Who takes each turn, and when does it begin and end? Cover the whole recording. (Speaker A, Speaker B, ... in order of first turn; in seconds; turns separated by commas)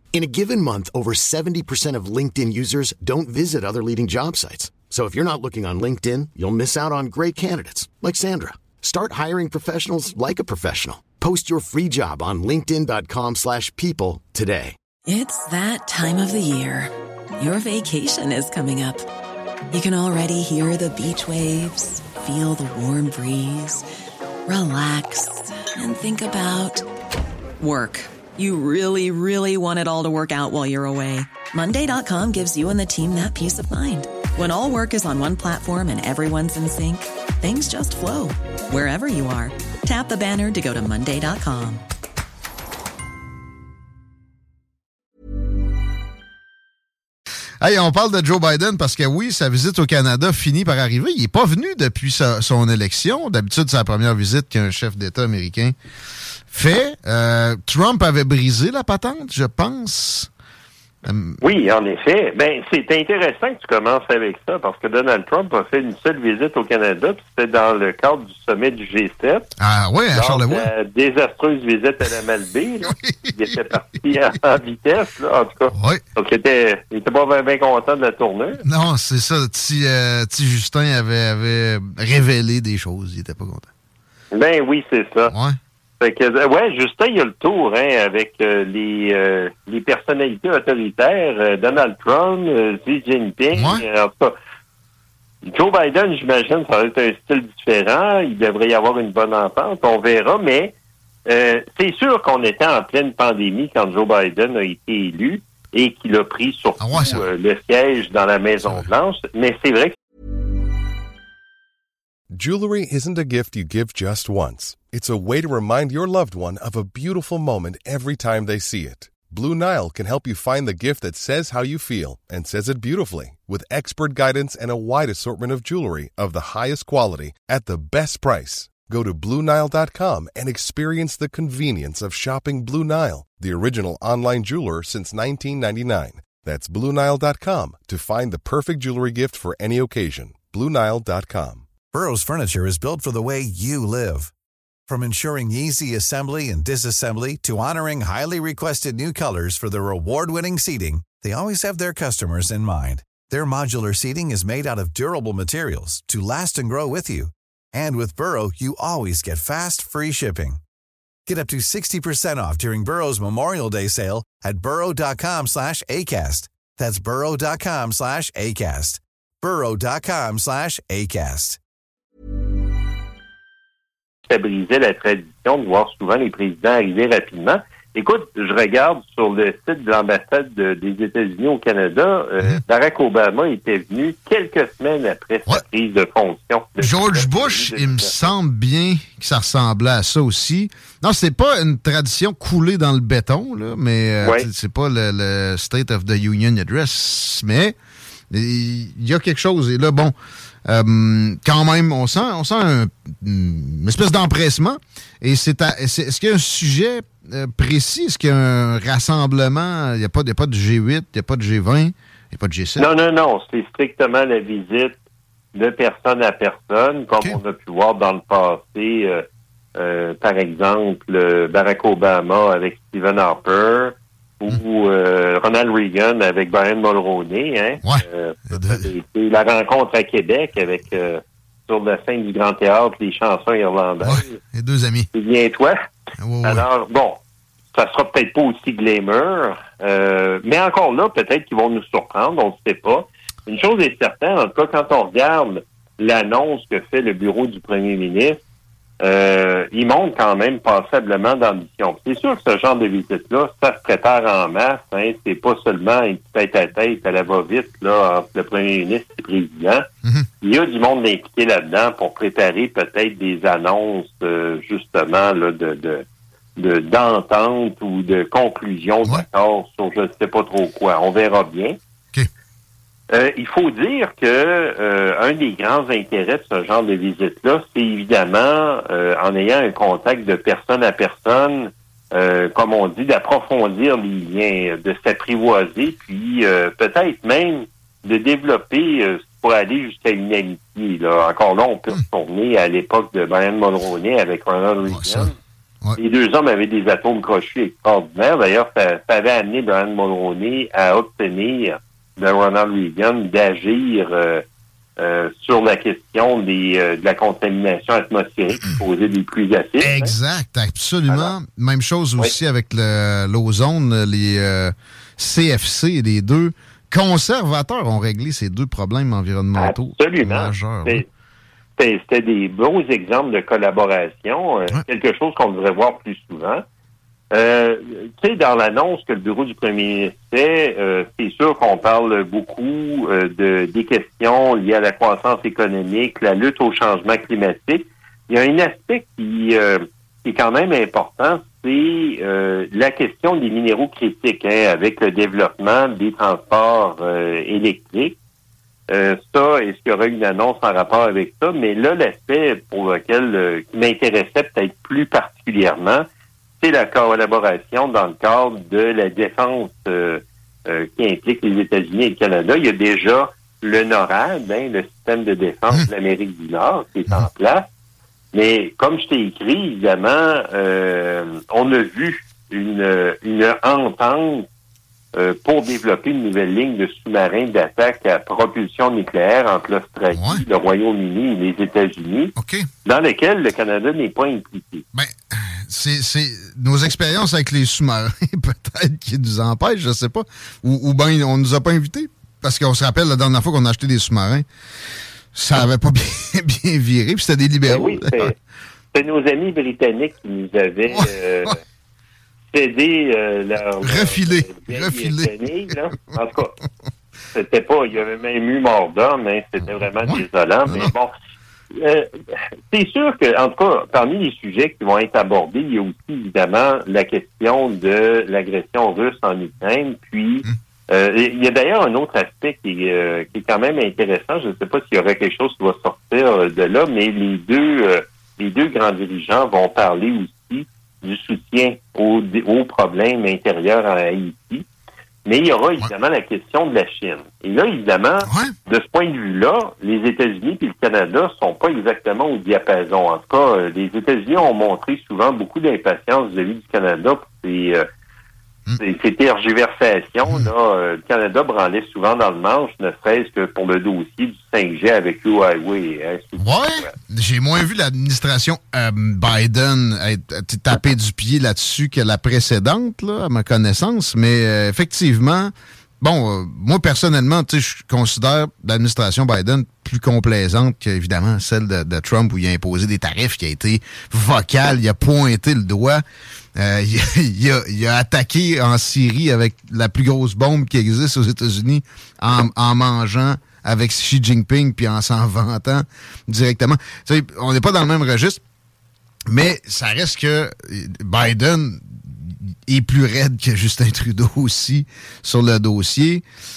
Speaker A: 0.1-14.8, Speaker B: 15.1-19.1, Speaker B: 19.7-23.9, Speaker B: 24.5-26.9, Speaker B: 27.6-41.8, Speaker C: 47.6-55.8, Speaker C: 56.5-60.3, Speaker C: 61.0-61.4, Speaker D: 61.4-69.5, Speaker C: 69.6-70.7, Speaker D: 70.1-78.6, Speaker C: 72.8-73.8, Speaker C: 75.7-76.0, Speaker C: 78.6-83.7, Speaker D: 84.3-85.3, Speaker C: 85.3-85.6, Speaker D: 86.0-94.3, Speaker C: 93.5-93.8, Speaker D: 95.4-100.7, Speaker D: 101.3-110.0, Speaker C: 106.8-107.3, Speaker C: 108.6-108.9, Speaker E: 112.3-141.7, Speaker F: 141.9-144.3, Speaker F: 144.9-160.6, Speaker F: 161.3-171.6, Speaker D: 174.3-188.3, Speaker C: 186.8-197.8, Speaker D: 194.2-194.5, Speaker C: 198.3-200.2, Speaker C: 200.7-212.9, Speaker D: 212.8-215.0, Speaker D: 215.6-219.2, Speaker D: 219.8-234.4, Speaker C: 227.8-228.9, Speaker C: 234.0-235.1, Speaker D: 235.1-235.8, Speaker C: 236.2-236.7, Speaker D: 236.4-237.2, Speaker D: 237.7-248.4, Speaker D: 249.0-259.9, Speaker D: 260.4-266.1, Speaker D: 266.6-271.8, Speaker D: 273.1-295.4, Speaker C: 294.9-295.3, Speaker D: 296.0-304.4, Speaker D: 305.0-310.1, Speaker C: 309.8-321.0, Speaker D: 319.6-321.1, Speaker D: 321.8-326.6, Speaker D: 327.3-348.2, Speaker D: 348.9-356.0, Speaker D: 356.6-367.7, Speaker D: 368.3-374.4, Speaker D: 375.1-382.3, Speaker C: 380.1-380.4, Speaker C: 382.4-382.6, Speaker D: 382.9-384.8, Speaker C: 384.9-394.5, Speaker C: 395.3-398.3, Speaker D: 397.7-398.4, Speaker D: 398.9-401.6, Speaker C: 400.9-401.5, Speaker D: 402.5-406.6, Speaker C: 403.8-405.3, Speaker D: 407.3-411.1, Speaker C: 410.1-410.9, Speaker D: 411.8-412.1, Speaker D: 412.7-434.7, Speaker D: 435.2-447.8, Speaker C: 438.2-438.5, Speaker D: 448.8-456.9, Speaker C: 456.4-476.0, Speaker C: 476.6-488.4, Speaker C: 489.3-496.2